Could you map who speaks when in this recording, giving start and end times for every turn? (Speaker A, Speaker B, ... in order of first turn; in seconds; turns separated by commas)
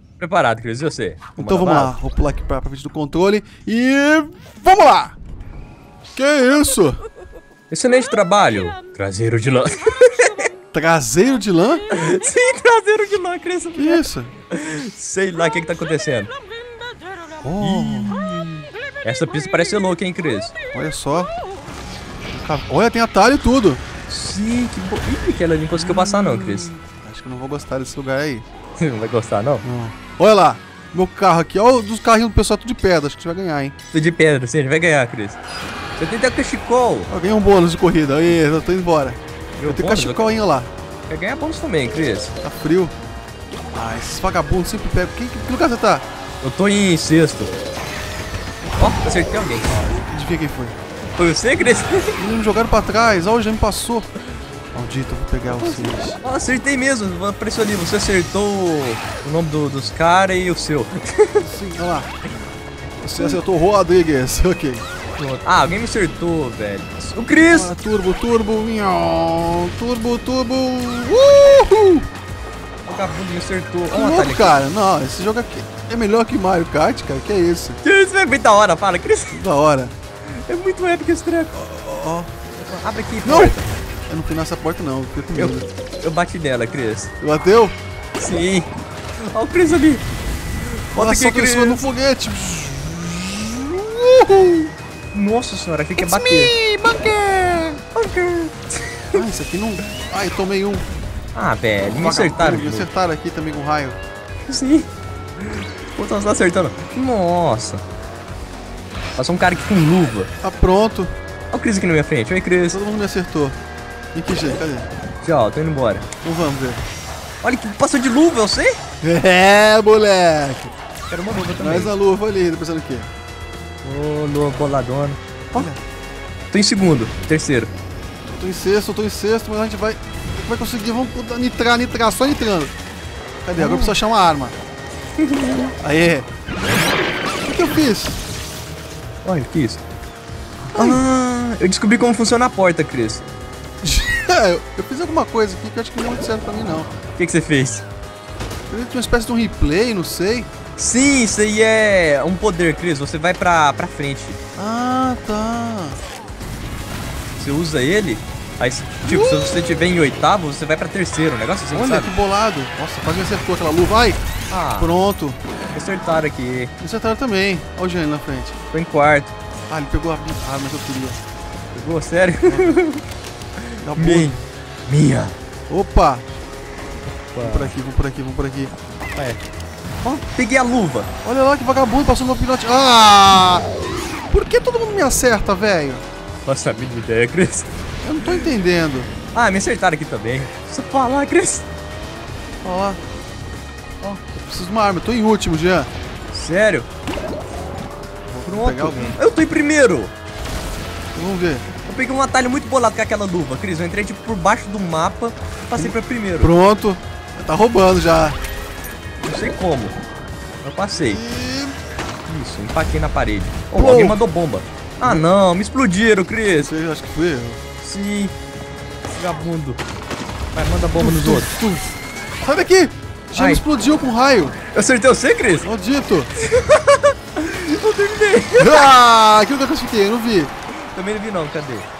Speaker A: 0.2-1.9, Speaker B: 1.4-5.1, Speaker B: 6.1-7.0, Speaker A: 7.7-10.5, Speaker B: 10.7-11.8, Speaker A: 11.9-16.3, Speaker B: 13.7-14.3, Speaker B: 17.4-18.2, Speaker A: 17.6-18.3, Speaker A: 19.0-20.5, Speaker B: 20.7-21.3, Speaker B: 22.3-23.8, Speaker A: 24.1-26.7, Speaker B: 25.7-28.4, Speaker A: 28.8-29.6, Speaker B: 29.6-33.7, Speaker A: 33.9-35.4, Speaker A: 36.0-37.1, Speaker B: 37.1-40.7, Speaker A: 39.6-40.2, Speaker A: 41.1-42.3, Speaker B: 42.4-42.9, Speaker B: 43.7-46.0, Speaker A: 46.4-47.5, Speaker A: 48.8-49.8, Speaker B: 50.1-50.8, Speaker A: 51.2-52.2, Speaker B: 52.2-54.1, Speaker B: 54.7-56.2, Speaker A: 56.2-61.4, Speaker B: 61.4-62.1, Speaker B: 63.0-64.8, Speaker A: 65.2-67.7, Speaker B: 67.5-72.0, Speaker A: 72.8-74.5, Speaker B: 73.9-77.8, Speaker A: 77.8-79.4, Speaker B: 79.3-79.9, Speaker A: 80.3-81.5, Speaker B: 81.5-82.3, Speaker A: 82.6-83.7, Speaker B: 83.2-83.6, Speaker B: 84.1-85.7, Speaker A: 85.3-87.1, Speaker B: 87.2-87.8, Speaker A: 88.2-90.0, Speaker A: 90.6-91.8, Speaker B: 90.9-94.7, Speaker A: 95.1-96.5, Speaker B: 96.0-97.8, Speaker A: 97.9-99.2, Speaker B: 99.1-100.8, Speaker A: 101.3-102.9, Speaker B: 101.9-104.0, Speaker A: 104.5-104.9, Speaker A: 105.4-107.8, Speaker A: 109.2-110.3, Speaker B: 110.4-111.1, Speaker A: 111.5-112.8, Speaker B: 112.7-113.6, Speaker B: 114.1-114.9, Speaker A: 115.2-116.1, Speaker B: 116.2-116.8, Speaker A: 117.4-118.8, Speaker B: 119.0-120.7, Speaker A: 121.1-121.9, Speaker B: 121.6-123.1, Speaker A: 123.8-125.7, Speaker B: 125.5-125.8, Speaker A: 126.5-127.7, Speaker B: 128.3-132.7, Speaker B: 133.4-134.6, Speaker A: 133.6-133.9, Speaker A: 135.2-135.7, Speaker B: 135.8-136.3, Speaker B: 137.4-138.2, Speaker A: 139.2-139.8, Speaker B: 140.7-141.0, Speaker A: 140.7-143.2, Speaker B: 143.8-146.9, Speaker A: 147.2-147.8, Speaker B: 148.7-150.5, Speaker A: 150.8-154.4, Speaker B: 154.6-156.0, Speaker A: 157.4-162.1, Speaker B: 159.0-159.6, Speaker B: 161.7-164.2, Speaker A: 164.5-164.9, Speaker B: 164.8-165.4, Speaker A: 165.7-166.7, Speaker B: 166.8-168.6, Speaker A: 168.7-169.3, Speaker B: 169.7-171.2, Speaker A: 171.7-173.0, Speaker B: 172.4-172.8, Speaker A: 173.7-175.3, Speaker B: 173.8-174.4, Speaker B: 175.7-176.3, Speaker A: 177.3-177.7, Speaker B: 177.4-178.7, Speaker A: 179.1-179.4, Speaker A: 180.0-181.1, Speaker B: 181.2-183.7, Speaker B: 184.3-186.0, Speaker A: 186.4-187.7, Speaker B: 188.0-189.1, Speaker A: 189.3-191.7, Speaker B: 192.6-193.0, Speaker B: 194.1-195.9, Speaker A: 196.3-196.9, Speaker B: 198.3-199.2, Speaker A: 198.4-200.1, Speaker B: 201.1-201.7, Speaker A: 201.8-206.5, Speaker B: 205.8-208.4, Speaker A: 209.2-209.9, Speaker A: 210.6-211.2, Speaker B: 211.1-211.8, Speaker A: 212.3-216.7, Speaker B: 213.7-214.2, Speaker B: 215.0-215.2, Speaker B: 216.6-217.6, Speaker A: 217.8-218.3, Speaker A: 219.1-219.8, Speaker A: 220.5-221.5, Speaker B: 221.0-221.8, Speaker B: 222.4-224.6, Speaker A: 223.3-223.6, Speaker A: 224.7-225.7, Speaker B: 225.6-226.3, Speaker A: 226.3-228.9, Speaker B: 228.6-230.5, Speaker A: 230.9-231.9